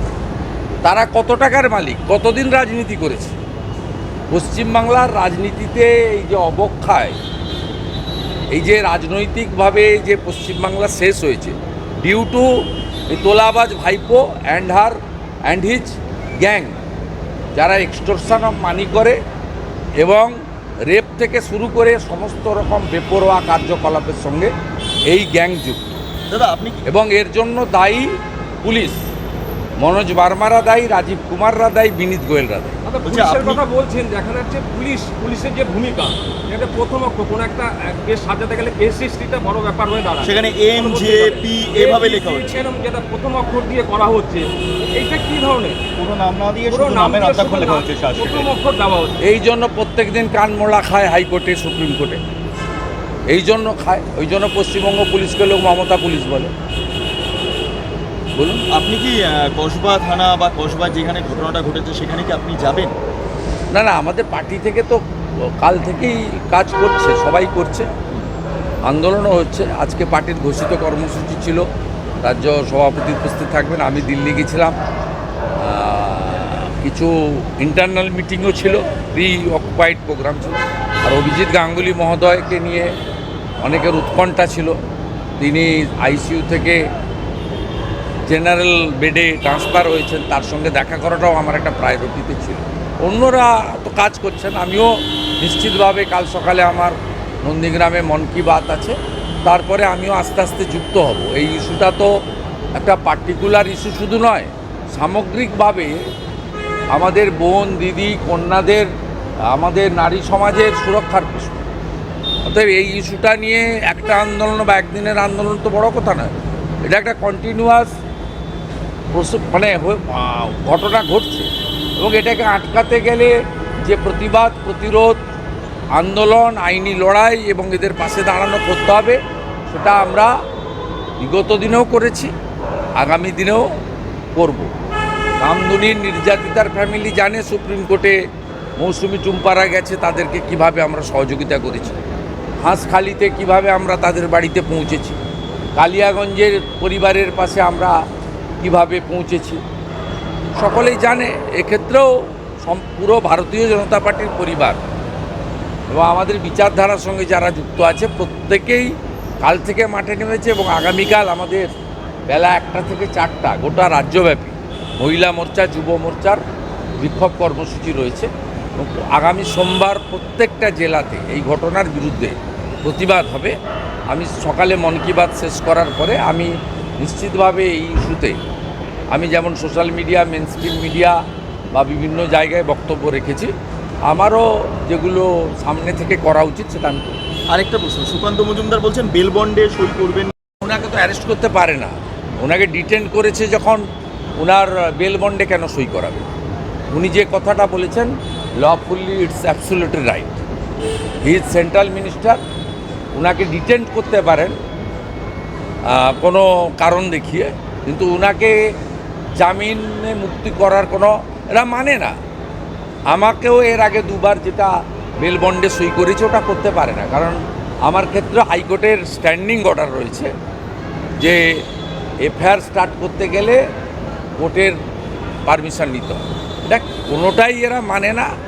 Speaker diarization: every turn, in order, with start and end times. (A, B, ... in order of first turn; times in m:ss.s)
0:00.8-0:03.4 A
0:04.3-0:07.2 A
0:08.5-0:16.8 A
0:17.5-0:19.2 A
0:20.0-0:24.5 A
0:25.1-0:26.0 A
0:26.3-0:26.8 B
0:26.8-0:29.0 A
0:29.8-0:32.8 A
0:32.8-0:45.8 C
0:33.0-0:33.6 B
0:40.2-0:42.6 B
0:46.0-0:48.5 D
0:46.7-0:49.2 C
0:49.2-0:52.2 A
0:53.3-0:56.5 A
0:58.3-0:58.6 A
0:58.7-1:02.9 B
1:03.7-1:05.0 A
1:05.6-1:07.9 A
1:08.8-1:11.6 A
1:12.2-1:14.7 A
1:15.6-1:22.9 A
1:23.6-1:24.8 A
1:25.4-1:26.8 A
1:28.2-1:42.1 A
1:42.7-1:46.0 A
1:46.9-1:48.9 A
1:49.5-1:51.6 A
1:52.4-1:57.9 A
1:59.1-2:05.2 A
2:05.9-2:10.3 A
2:11.2-2:12.3 A
2:13.0-2:13.7 A
2:14.3-2:14.7 A
2:15.4-2:18.2 A
2:18.8-2:22.0 A
2:22.6-2:25.2 A
2:25.8-2:28.0 A
2:28.6-2:29.6 A
2:30.5-2:34.8 A
2:35.9-2:41.7 A
2:42.3-2:46.4 A
2:47.0-2:53.5 A
2:54.1-2:58.4 A
2:59.1-3:01.2 A
3:01.7-3:03.5 A
3:04.1-3:07.2 A
3:07.5-3:10.3 B
3:10.6-3:13.9 A
3:14.4-3:16.2 A
3:16.9-3:20.4 A
3:21.2-3:22.4 A
3:23.1-3:24.6 A
3:25.9-3:28.6 A
3:29.4-3:32.2 A
3:33.1-3:40.3 A
3:41.2-3:41.6 A
3:42.2-3:43.6 A
3:44.4-3:44.8 A
3:45.4-3:48.3 A